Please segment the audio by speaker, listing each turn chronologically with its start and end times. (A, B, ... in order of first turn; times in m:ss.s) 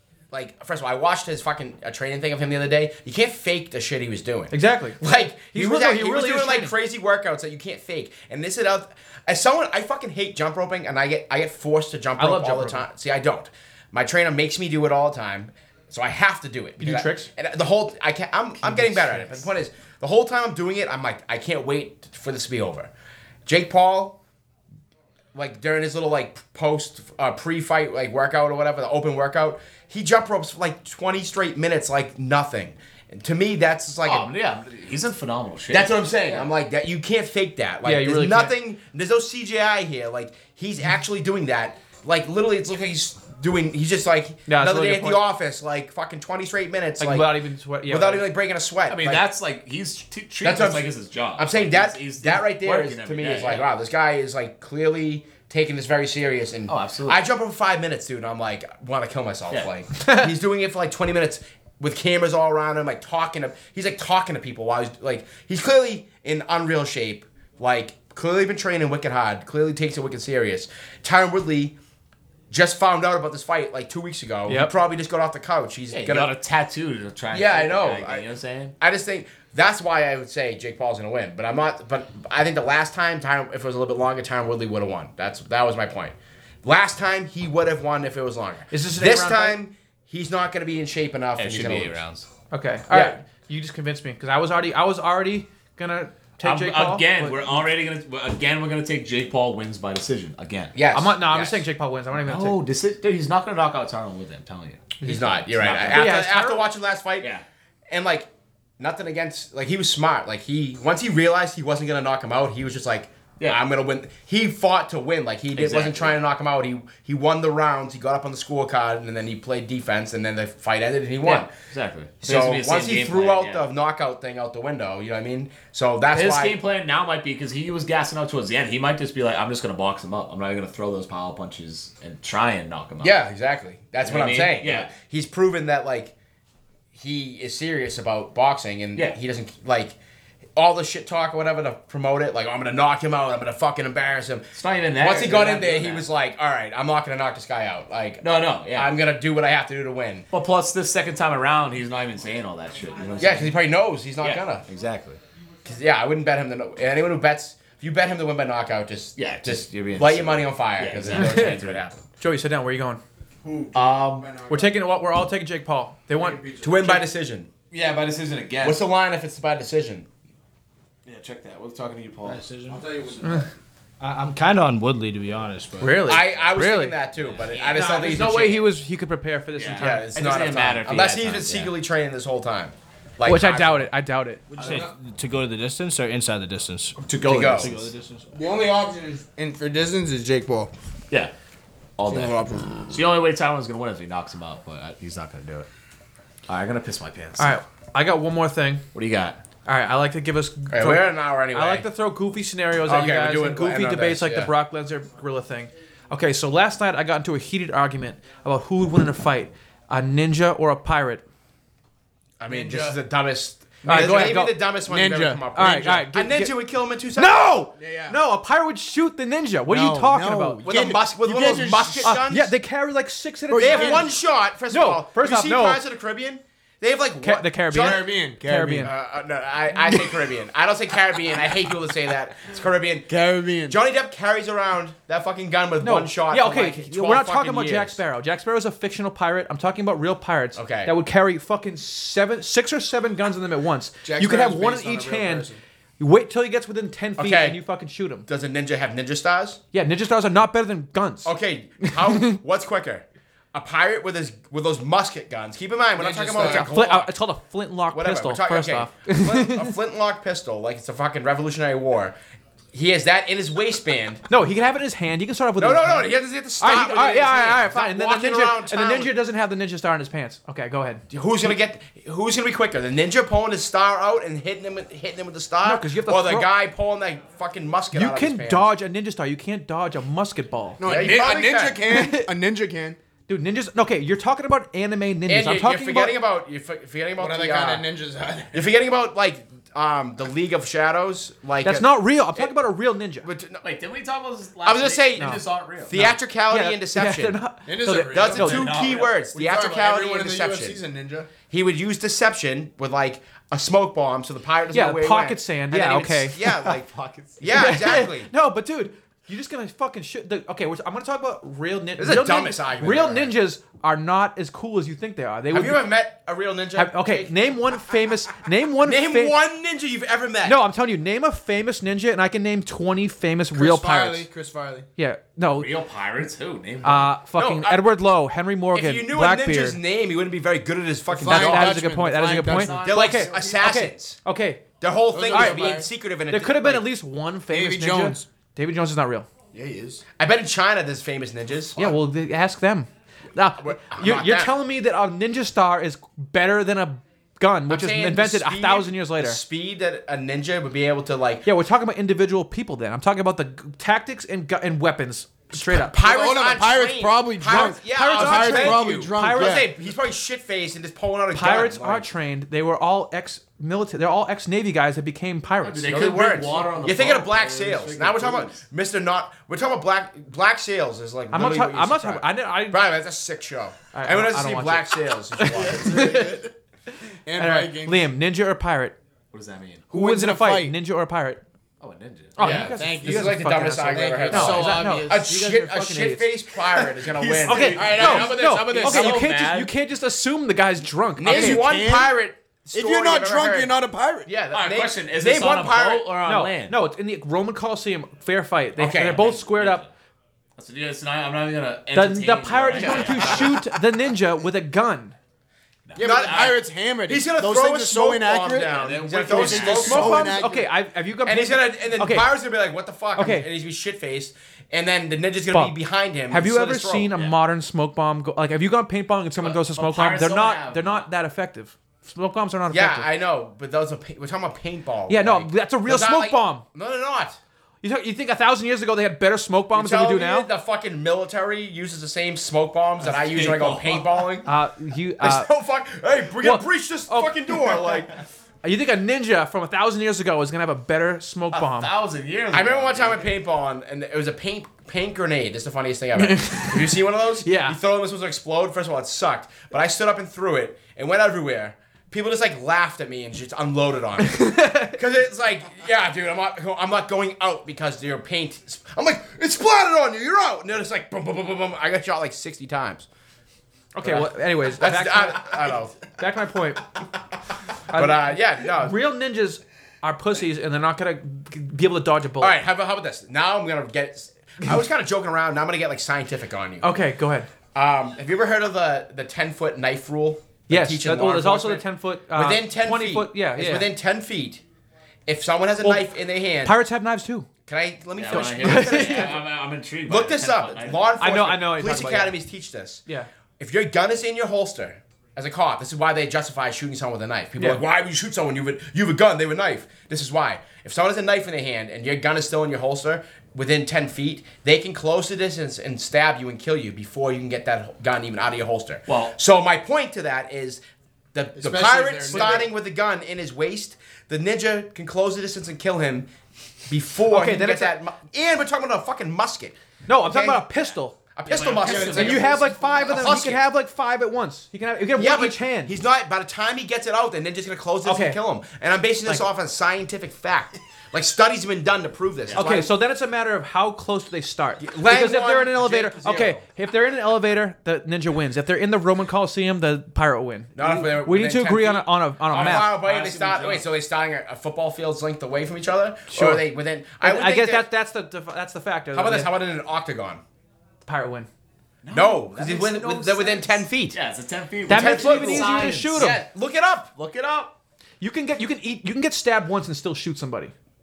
0:00.3-0:22.9 A
0:04.5-0:06.7 B
0:12.2-0:12.8 B
0:16.8-0:17.3 B
0:18.6-0:19.5 B
0:23.5-0:24.2 A
0:25.3-0:34.3 A
0:34.0-0:36.5 C
0:35.7-0:47.3 A
0:37.8-0:38.6 B
0:44.5-0:45.2 B
0:47.0-0:48.3 B
0:47.9-0:49.2 A
0:48.9-0:53.7 C
0:50.4-1:11.8 A
0:56.7-0:57.2 C
1:00.0-1:00.3 B
1:12.5-1:16.3 A
1:14.5-1:14.7 B
1:15.9-1:18.8 C
1:17.3-1:18.2 A
1:18.8-1:32.0 A
1:28.7-1:29.6 B
1:31.4-1:32.3 C
1:32.5-1:37.4 B
1:32.9-1:33.2 A
1:36.4-1:40.8 C
1:40.8-1:41.6 A
1:40.9-1:42.6 B
1:42.2-1:46.2 C
1:45.0-1:47.3 A
1:45.0-1:45.3 B
1:45.9-1:46.6 B
1:47.9-2:01.5 A
1:55.6-1:56.2 C
2:01.2-2:03.6 C
2:02.2-2:06.6 A
2:06.1-2:13.2 C
2:13.0-2:16.1 A
2:14.0-2:14.9 C
2:16.9-2:20.0 A
2:20.6-2:30.3 A
2:24.5-2:26.1 C
2:28.2-2:28.9 C
2:30.3-2:33.6 C
2:33.2-2:34.7 A
2:34.2-2:35.2 C
2:35.6-2:42.0 A
2:39.2-2:41.8 C
2:41.2-2:41.6 B
2:42.2-2:43.0 B
2:43.4-2:44.8 D
2:43.7-2:44.3 C
2:44.5-2:46.4 B
2:46.1-2:47.0 D
2:46.6-2:47.5 A
2:47.7-2:48.8 C
2:48.6-2:50.1 A
2:51.1-2:52.4 C
2:52.2-2:52.8 E
2:52.7-2:53.5 D
2:54.0-2:56.1 E
2:55.8-2:57.0 B
2:56.0-2:58.7 A
2:57.2-2:58.1 C
2:57.7-3:00.1 B
2:59.6-3:01.8 C
2:59.8-3:03.9 A
3:03.2-3:04.4 B
3:04.5-3:08.3 E
3:04.6-3:04.9 D
3:07.0-3:07.8 C
3:07.2-3:07.7 A
3:08.3-3:10.7 D
3:12.0-3:15.7 C
3:12.1-3:13.0 D
3:16.5-3:17.6 C
3:17.4-3:18.8 B
3:18.9-3:19.4 C
3:19.7-3:31.2 B
3:20.7-3:21.9 A
3:22.9-3:24.5 A
3:32.4-3:37.6 A
3:32.5-3:33.0 D
3:33.8-3:34.4 D
3:33.8-3:34.6 B
3:34.9-3:35.4 D
3:35.5-3:36.5 B
3:37.2-3:40.6 B
3:37.8-3:38.2 D
3:39.7-3:42.2 D
3:40.6-3:42.5 A
3:42.0-3:44.2 B
3:43.5-3:44.1 D
3:43.6-3:48.0 A
3:44.7-3:45.8 B
3:47.2-3:48.9 B
3:47.7-3:48.9 D
3:48.8-3:53.2 A
3:53.1-3:53.8 D
3:53.7-3:58.0 A
3:55.8-4:05.5 B
4:00.6-4:00.9 A
4:04.0-4:05.6 D
4:06.0-4:08.3 B
4:07.2-4:07.6 A
4:08.3-4:09.6 A
4:09.7-4:11.3 B
4:11.2-4:17.1 A
4:11.8-4:12.4 B
4:16.0-4:16.7 D
4:16.4-4:19.7 B
4:17.9-4:22.2 A
4:22.7-4:24.2 A
4:24.3-4:31.0 B
4:25.6-4:29.1 A
4:31.1-4:38.7 A
4:35.6-4:36.5 B
4:37.9-4:40.8 B
4:40.8-4:43.0 D
4:40.8-4:41.8 A
4:41.9-4:42.3 B
4:43.3-4:46.2 B
4:45.3-4:47.8 A
4:47.2-4:48.7 D
4:48.5-4:52.5 A
4:51.6-4:53.3 B
4:53.2-4:53.6 A
4:53.6-4:56.1 C
4:54.6-4:57.4 A
4:55.2-4:55.4 B
4:55.9-4:58.7 B
4:57.7-5:01.3 D
4:58.1-5:00.8 A
4:58.4-4:59.2 C
5:01.5-5:08.3 A
5:04.7-5:06.7 B
5:06.7-5:07.7 C
5:07.5-5:15.8 B
5:12.0-5:13.3 A
5:15.5-5:17.3 A
5:16.8-5:19.4 B
5:18.8-5:20.6 A
5:20.4-5:24.3 B
5:23.5-5:24.9 D
5:25.0-5:25.7 B
5:25.6-5:27.2 C
5:26.8-5:29.8 B
5:27.3-5:27.8 A
5:28.7-5:31.7 A
5:31.1-5:33.5 D
5:31.2-5:34.6 B
5:32.5-5:33.6 C
5:32.8-5:34.2 A
5:34.8-5:36.9 A
5:35.1-5:35.9 D
5:35.3-5:35.7 B
5:36.3-5:39.3 B
5:37.5-5:38.3 D
5:39.5-5:40.0 D
5:40.2-5:42.0 A
5:41.8-5:49.4 B
5:43.6-5:44.5 A
5:47.7-5:51.4 A
5:51.4-5:56.0 B
5:55.6-5:59.7 D
5:55.8-6:02.1 A
5:57.5-5:59.6 B
6:01.3-6:06.2 B
6:05.6-6:08.6 C
6:05.9-6:16.0 A
6:11.3-6:12.8 B
6:13.9-6:16.4 B
6:15.6-6:16.5 D
6:17.2-6:18.0 D
6:17.4-6:19.0 B
6:19.3-6:19.9 C
6:19.9-6:20.8 D
6:19.9-6:21.4 B
6:21.8-6:22.7 C
6:22.4-6:26.3 B
6:22.4-6:25.5 D
6:22.4-6:28.4 A
6:27.2-6:29.3 D
6:27.2-6:29.7 C
6:27.4-6:31.6 B
6:31.2-6:36.1 A
6:31.2-6:32.1 D
6:32.7-6:34.3 D
6:34.5-6:36.8 C
6:36.2-6:39.8 B
6:38.8-6:39.4 A
6:39.2-6:39.9 C
6:40.6-6:43.7 C
6:41.9-6:45.2 B
6:42.8-6:43.2 A
6:45.9-6:46.6 C
6:46.0-6:50.7 D
6:46.0-6:50.5 A
6:48.6-6:50.2 C
6:49.4-6:52.3 B
6:51.2-6:57.1 A
6:53.2-6:53.5 B
6:56.3-7:03.1 B
6:59.4-7:01.1 C
7:02.7-7:07.4 A
7:05.1-7:06.6 B
7:07.8-7:10.5 B
7:09.7-7:14.5 A
7:13.0-7:14.3 C
7:14.4-7:15.5 B
7:15.2-7:18.2 A
7:16.4-7:18.1 B
7:18.6-7:21.9 B
7:21.5-7:23.3 C
7:22.5-7:43.1 A
7:26.2-7:27.8 B
7:34.2-7:35.0 B
7:44.0-7:46.9 B
7:44.0-7:46.0 A
7:47.9-7:52.6 B
7:47.9-7:49.0 A
7:52.4-7:56.9 A
7:56.8-7:57.5 B
7:57.7-8:04.6 A
8:00.7-8:03.9 B
8:05.3-8:06.8 A
8:05.8-8:06.1 B
8:06.6-8:07.5 B
8:07.7-8:09.5 A
8:08.2-8:11.2 C
8:08.3-8:09.4 B
8:10.1-8:13.0 A
8:11.2-8:12.4 B
8:13.6-8:30.8 A
8:29.1-8:29.4 C
8:31.3-8:36.3 A
8:31.6-8:32.7 D
8:32.3-8:32.6 B
8:36.9-8:40.6 A
8:37.3-8:38.0 B
8:40.1-8:41.2 B
8:41.4-8:43.6 A
8:41.5-8:43.2 C
8:41.8-8:42.4 D
8:42.1-8:45.9 B
8:45.2-8:52.9 A
8:48.0-8:48.4 B
8:52.6-9:03.0 B
8:54.8-8:56.6 A
9:00.8-9:07.8 A
9:02.5-9:03.9 C
9:06.3-9:06.6 B
9:07.2-9:09.5 B
9:09.1-9:10.4 A
9:11.0-9:11.5 B
9:12.0-9:16.5 C
9:12.1-9:14.2 A
9:14.9-9:17.1 A
9:14.9-9:16.4 B
9:17.2-9:17.7 C
9:18.2-9:20.7 B